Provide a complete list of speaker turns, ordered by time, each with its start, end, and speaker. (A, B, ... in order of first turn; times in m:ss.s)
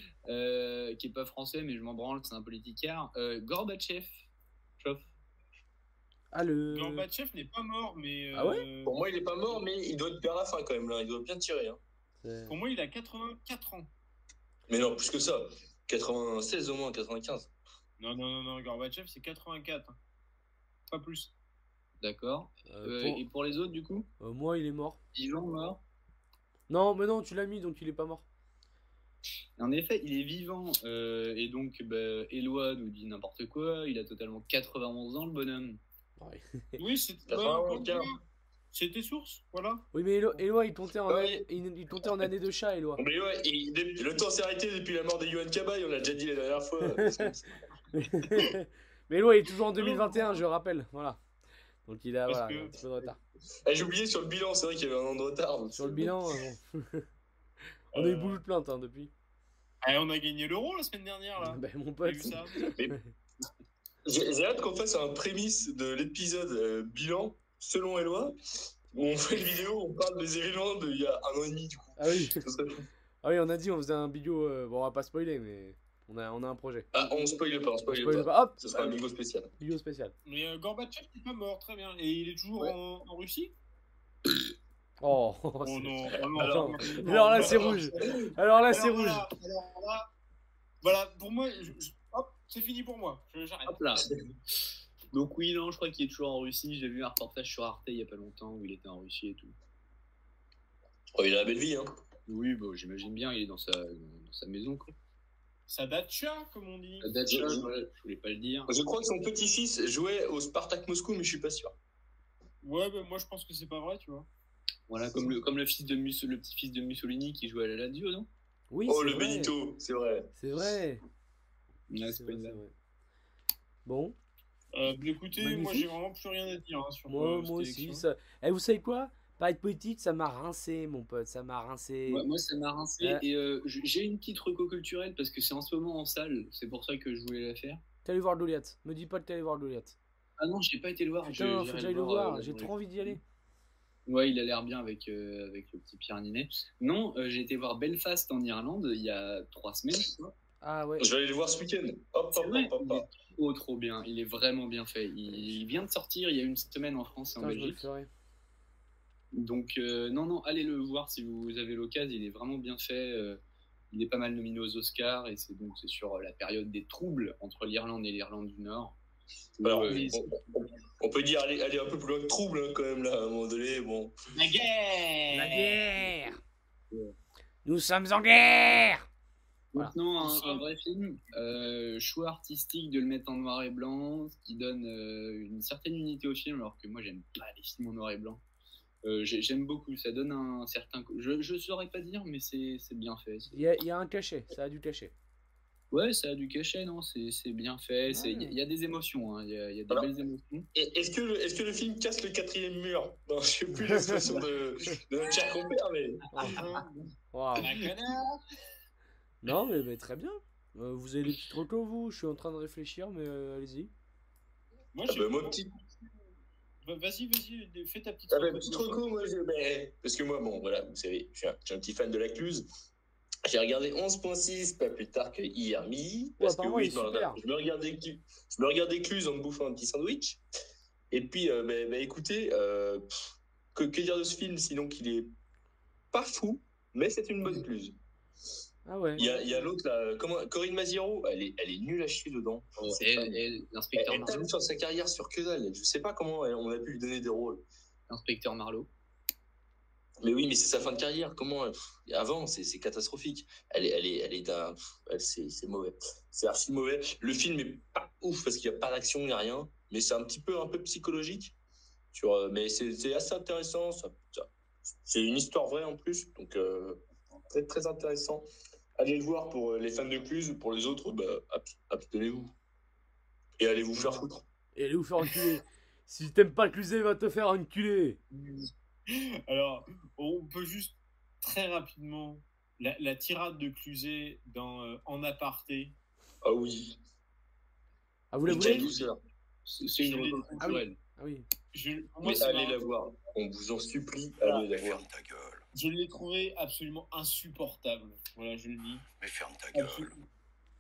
0:00.3-0:04.3 A
0:04.8-0:05.1 A
0:06.3-0:07.1 B
0:06.7-0:09.0 C
0:08.3-0:08.7 B
0:08.8-0:11.8 D
0:12.2-0:12.6 B
0:12.5-0:13.9 C
0:14.7-0:17.5 D
0:18.0-0:20.0 C
0:20.9-0:21.3 C
0:22.0-0:24.1 A
0:22.7-0:23.2 B
0:24.2-0:25.0 B
0:25.1-0:25.8 A
0:26.7-0:28.2 B
0:29.6-0:35.8 A
0:36.2-0:36.8 B
0:36.8-0:38.2 C
0:37.3-0:38.1 D
0:38.7-0:39.9 C
0:39.9-0:43.0 B
0:41.1-0:41.5 D
0:43.0-0:47.5 D
0:47.0-0:47.3 B
0:48.0-0:51.2 B
0:49.8-0:50.4 C
0:51.9-0:53.2 B
0:52.3-0:53.0 C
0:53.6-0:56.2 D
0:55.8-0:57.0 B
0:57.9-0:58.4 C
0:57.9-0:59.1 B
0:59.8-1:02.6 C
1:01.4-1:03.1 B
1:04.0-1:08.4 D
1:08.9-1:12.9 D
1:12.0-1:12.4 B
1:13.2-1:16.9 B
1:16.9-1:19.5 D
1:17.9-1:19.0 B
1:19.6-1:20.1 B
1:20.3-1:23.5 C
1:25.0-1:29.3 B
1:25.6-1:30.1 C
1:26.3-1:28.3 D
1:30.8-1:34.0 C
1:33.7-1:34.1 A
1:35.1-1:39.6 A
1:41.2-1:41.9 D
1:42.3-1:44.9 A
1:45.7-1:47.5 C
1:47.0-1:48.7 A
1:47.3-1:47.7 D
1:48.7-1:51.8 D
1:52.6-1:54.3 C
1:54.9-1:58.3 A
1:58.7-1:59.6 B
1:58.9-2:00.3 D
2:00.4-2:01.0 B
2:01.9-2:02.6 A
2:02.0-2:02.7 B
2:03.8-2:04.2 B
2:04.7-2:08.0 C
2:05.4-2:05.9 B
2:07.1-2:12.3 B
2:12.1-2:17.8 A
2:18.0-2:20.0 B
2:20.4-2:23.2 A
2:21.3-2:23.2 B
2:24.1-2:30.3 A
2:30.6-2:31.1 B
2:31.0-2:33.1 D
2:32.4-2:37.8 A
2:37.4-2:38.1 B
2:39.3-2:43.4 A
2:43.9-2:49.0 A
2:49.6-2:50.1 A
2:49.6-2:54.1 D
2:54.3-2:55.8 C
2:55.3-2:56.4 B
2:57.6-2:59.1 B
2:59.7-3:08.4 A
3:00.2-3:00.6 C
3:09.0-3:13.6 A
3:13.5-3:15.1 B
3:15.9-3:20.7 A
3:18.1-3:18.6 B
3:20.7-3:26.6 D
3:23.9-3:24.3 B
3:26.3-3:26.6 B
3:26.5-3:27.0 C
3:27.3-3:27.7 B
3:27.6-3:28.4 C
3:29.4-3:33.9 B
3:34.9-3:35.6 C
3:35.0-3:35.7 D
3:36.8-3:39.0 C
3:38.3-3:42.6 D
3:43.5-3:50.4 D
3:46.4-3:47.4 B
3:51.1-3:55.3 D
3:56.1-3:58.0 D
3:58.9-3:59.3 B
3:59.2-4:03.4 D
3:59.2-3:59.5 C
4:02.8-4:04.5 A
4:04.0-4:07.6 D
4:08.1-4:08.9 A
4:10.2-4:21.5 D
4:22.1-4:28.5 D
4:29.0-4:32.5 D
4:33.6-4:34.4 D
4:34.8-4:38.2 B
4:38.3-4:46.0 C
4:46.4-4:47.0 D
4:48.3-4:49.0 B
4:48.4-4:49.2 D
4:49.7-4:51.0 A
4:50.0-4:50.8 C
4:50.6-4:51.4 B
4:51.7-4:52.8 C
4:52.2-4:55.0 D
4:54.7-4:55.6 E
4:55.7-4:59.0 C
4:59.2-5:00.2 E
4:59.7-5:00.1 C